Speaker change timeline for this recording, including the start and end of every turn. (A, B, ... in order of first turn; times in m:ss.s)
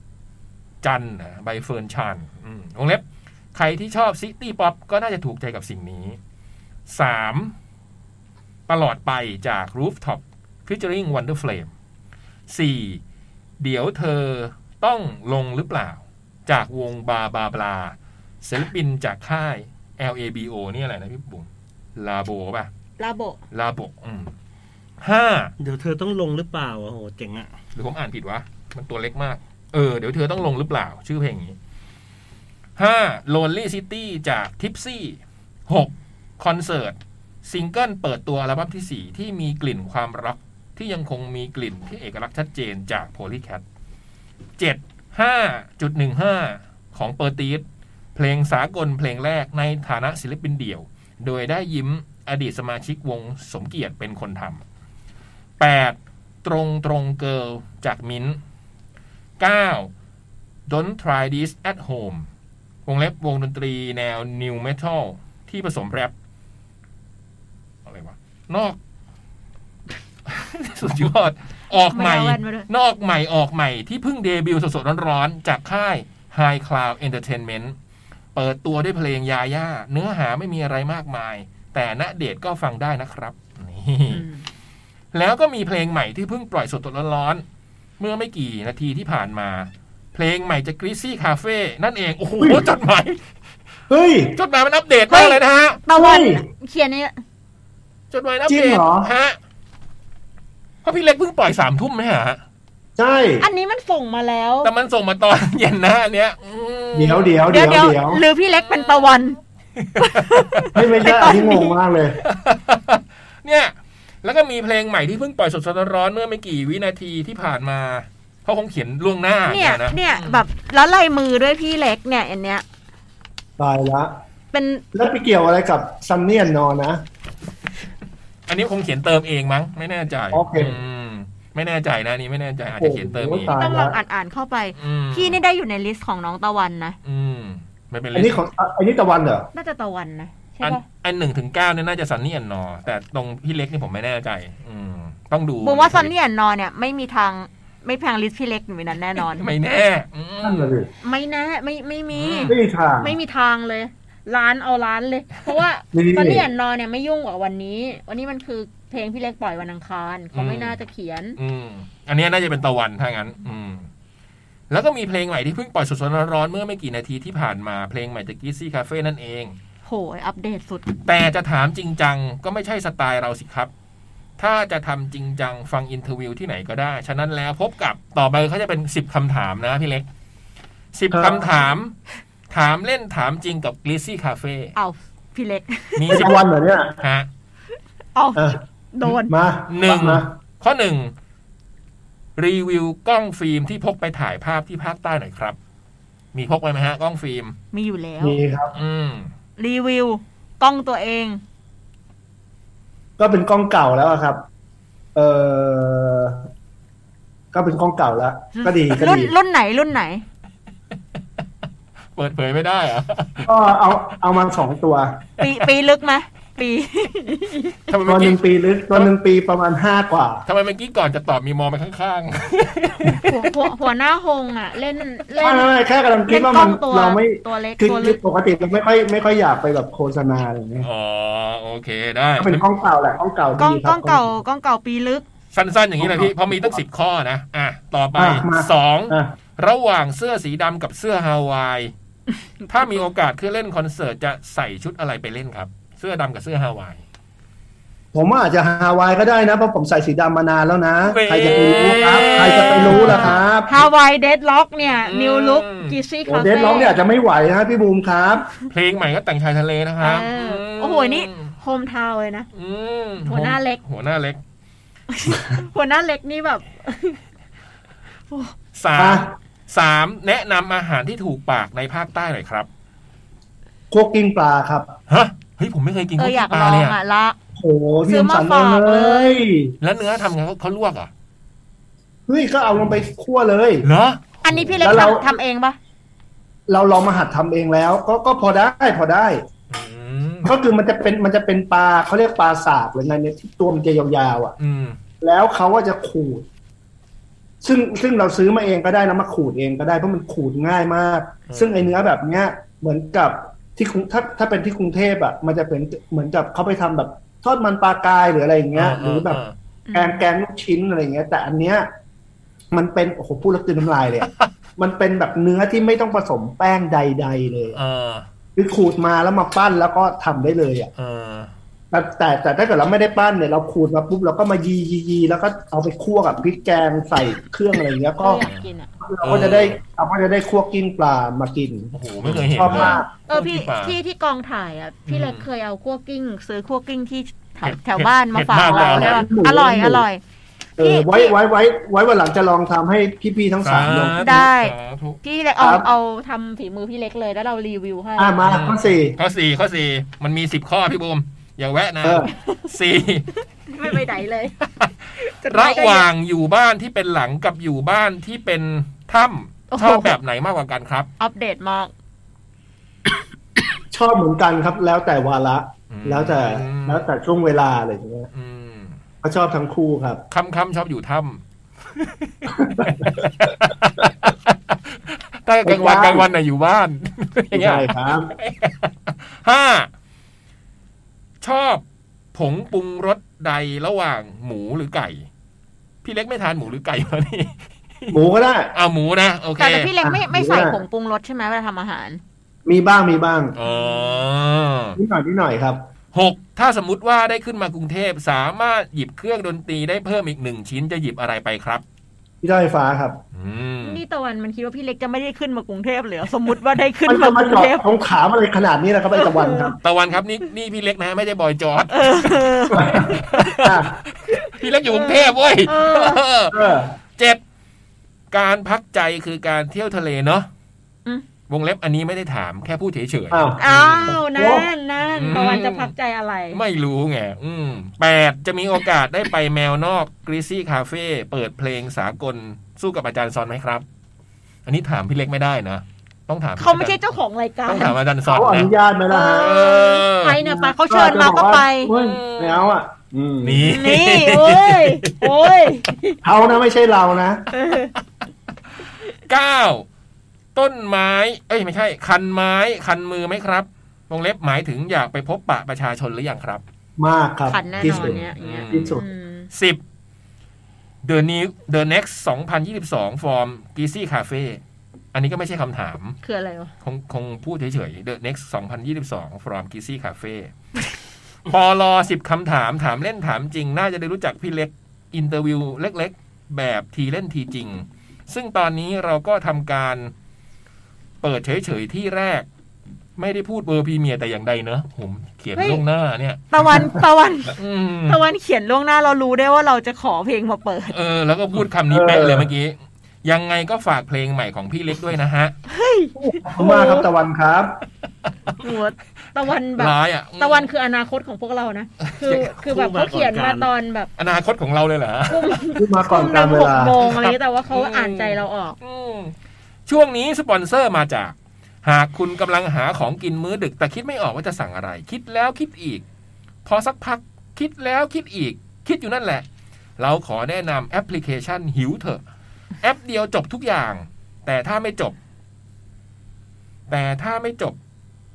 0:00.8-0:06.2 A
0:06.9-0:07.6 A
0:08.7-0:11.7 A
0:12.5-0:13.0 A
0:13.6-0:22.7 A
0:23.0-0:23.4 B
0:23.5-0:24.3 A
0:25.0-0:25.5 A
0:25.6-0:27.5 C
0:27.8-0:31.6 A
0:32.8-0:43.6 A
0:44.6-0:54.6 A
0:55.6-0:58.4 A
0:59.4-0:59.9 A
1:00.7-1:02.3 A
1:02.9-1:06.1 A
1:07.8-1:08.8 A
1:10.3-1:17.8 A
1:11.9-1:12.7 B
1:18.4-1:24.2 A
1:24.1-1:24.4 B
1:25.1-1:27.4 A
1:28.0-1:33.3 A
1:32.4-1:32.7 D
1:33.9-1:34.4 D
1:34.4-1:35.8 A
1:35.1-1:37.2 B
1:35.9-1:36.4 D
1:38.1-1:39.4 A
1:38.5-1:39.1 D
1:40.8-1:42.4 A
1:43.0-1:43.4 D
1:43.4-1:44.7 B
1:44.6-1:47.4 A
1:46.9-1:48.2 D
1:47.5-1:49.4 B
1:49.8-1:50.8 A
1:50.0-1:51.8 B
1:50.7-1:52.2 D
1:52.2-2:00.4 A
1:59.5-2:02.6 B
2:03.6-2:04.1 D
2:04.5-2:04.8 B
2:04.9-2:07.0 D
2:08.5-2:13.5 A
2:10.3-2:10.8 D
2:12.8-2:14.0 D
2:13.5-2:17.0 B
2:14.8-2:15.4 A
2:17.0-2:18.4 A
2:18.1-2:19.5 D
2:19.5-2:20.8 B
2:20.6-2:26.1 A
2:25.6-2:29.5 B
2:29.2-2:30.7 A
2:30.4-2:30.9 D
2:31.0-2:41.4 B
2:32.1-2:32.5 A
2:32.5-2:33.2 D
2:35.9-2:36.5 D
2:40.3-2:40.8 A
2:41.4-2:43.9 A
2:44.7-2:49.6 A
2:49.8-2:50.9 B
2:51.0-2:53.7 A
2:54.4-3:00.1 A
3:00.9-3:02.0 A
3:01.1-3:01.5 D
3:02.5-3:04.8 A
3:04.8-3:06.4 B
3:06.0-3:06.4 A
3:06.1-3:07.0 D
3:07.0-3:07.3 A
3:08.2-3:09.3 B
3:08.4-3:10.3 D
3:09.7-3:11.1 A
3:12.4-3:15.6 A
3:16.3-3:17.6 A
3:17.7-3:18.4 B
3:18.2-3:18.8 D
3:18.8-3:19.3 A
3:19.6-3:21.4 B
3:23.2-3:24.4 D
3:25.2-3:26.5 D
3:27.5-3:29.3 D
3:28.6-3:30.2 B
3:32.2-3:33.5 A
3:33.4-3:35.2 D
3:35.4-3:37.8 B
3:37.9-3:38.4 A
3:38.0-3:40.4 D
3:40.4-3:43.5 A
3:43.2-3:45.7 B
3:45.4-3:50.9 D
3:46.3-3:48.2 B
3:50.8-3:52.7 A
3:52.4-3:54.3 D
3:53.6-3:55.2 B
3:55.5-4:01.9 A
3:56.0-3:56.8 D
3:58.2-3:59.4 D
4:02.6-4:02.9 B
4:02.7-4:07.0 A
4:08.1-4:13.7 D
4:11.0-4:13.5 A
4:12.0-4:17.0 B
4:15.0-4:16.0 A
4:16.3-4:18.5 D
4:18.7-4:21.5 A
4:20.0-4:22.5 B
4:22.5-4:24.4 A
4:23.2-4:23.8 B
4:25.1-4:27.2 B
4:28.3-4:28.6 B
4:28.8-4:32.7 A
4:29.0-4:29.3 D
4:33.9-4:34.9 D
4:35.1-4:37.0 A
4:36.2-4:37.4 B
4:37.6-4:39.8 D
4:38.1-4:39.4 B
4:39.8-4:41.1 A
4:42.3-4:43.9 D
4:43.8-4:45.0 A
4:44.4-4:45.8 B
4:44.8-4:45.3 D
4:46.7-4:49.4 D
4:49.7-4:50.5 A
4:50.4-4:54.6 D
4:54.6-4:55.0 A
4:55.2-4:56.5 D
4:57.6-5:09.4 D
5:01.5-5:01.9 A
5:08.8-5:09.6 A
5:09.9-5:10.2 B
5:09.9-5:11.9 D
5:12.7-5:17.8 D
5:14.2-5:14.5 A
5:17.7-5:18.3 A
5:18.6-5:20.9 D
5:21.0-5:21.5 A
5:21.9-5:28.4 D
5:28.2-5:28.9 B
5:29.0-5:33.1 D
5:29.2-5:29.8 A
5:31.9-5:34.0 A
5:32.7-5:40.2 B
5:35.1-5:35.4 A
5:37.6-5:39.3 A
5:38.6-5:40.1 D
5:40.8-5:44.3 D
5:40.8-5:41.4 B
5:43.6-5:45.2 A
5:44.2-5:48.4 B
5:45.6-5:45.9 D
5:48.2-5:49.2 D
5:48.4-5:53.3 A
5:52.0-5:52.3 D
5:53.7-5:54.6 B
5:54.6-6:01.1 A
5:55.2-5:56.1 B
5:59.7-6:00.2 B
6:01.2-6:01.9 B
6:03.9-6:08.3 D
6:05.9-6:07.1 A
6:08.3-6:09.0 A
6:09.2-6:10.2 D
6:10.3-6:11.4 A
6:11.9-6:19.9 A
6:12.5-6:13.1 D
6:15.6-6:16.3 D
6:17.5-6:18.3 D
6:21.4-6:25.3 A
6:26.0-6:28.2 A
6:28.1-6:28.7 D
6:28.7-6:29.9 A
6:29.6-6:32.2 B
6:30.0-6:30.8 D
6:32.7-6:33.6 D
6:33.6-6:35.0 A
6:33.6-6:34.2 B
6:35.0-6:35.8 D
6:36.1-6:41.8 A
6:42.4-6:43.2 D
6:43.3-6:44.0 A
6:43.8-6:47.8 B
6:47.1-6:49.8 D
6:49.2-6:49.7 B
6:49.8-6:56.6 A
6:51.9-6:53.6 B
6:52.7-6:53.9 D
6:54.3-6:56.2 B
6:56.5-6:56.9 D
6:57.2-6:57.4 A
6:58.3-7:00.5 A
7:01.5-7:04.2 A
7:03.3-7:04.7 D
7:03.6-7:06.6 B
7:05.0-7:05.9 A
7:06.5-7:13.8 A
7:14.7-7:17.0 A
7:16.6-7:18.0 B
7:17.7-7:18.7 A
7:18.3-7:19.5 D
7:19.1-7:21.9 B
7:19.3-7:20.4 A
7:20.4-7:23.7 D
7:21.9-7:22.7 A
7:23.4-7:25.3 A
7:23.6-7:26.2 B
7:26.2-7:27.4 D
7:27.5-7:27.9 B
7:29.3-7:29.9 A
7:30.6-7:36.6 A
7:37.0-7:39.0 D
7:37.5-7:39.5 B
7:37.7-7:39.0 A
7:39.5-7:39.8 A
7:41.0-7:44.6 A
7:45.1-7:46.2 A
7:46.2-7:46.7 B
7:46.8-7:50.5 A
7:51.5-8:00.1 A
8:01.2-8:02.5 A
8:03.2-8:06.4 A
8:05.6-8:05.8 B
8:06.5-8:11.0 B
8:07.6-8:08.2 A
8:10.9-8:15.5 A
8:11.9-8:12.5 D
8:15.7-8:17.1 B
8:16.2-8:17.8 D
8:18.6-8:24.1 B
8:19.8-8:20.7 A
8:22.0-8:22.5 A
8:22.6-8:23.7 C
8:24.2-8:25.8 A
8:25.3-8:28.8 B
8:25.8-8:27.0 D
8:27.0-8:29.3 A
8:29.9-8:36.0 A
8:36.6-8:39.5 A
8:40.0-8:42.2 A
8:42.8-8:45.2 A
8:46.9-8:47.8 A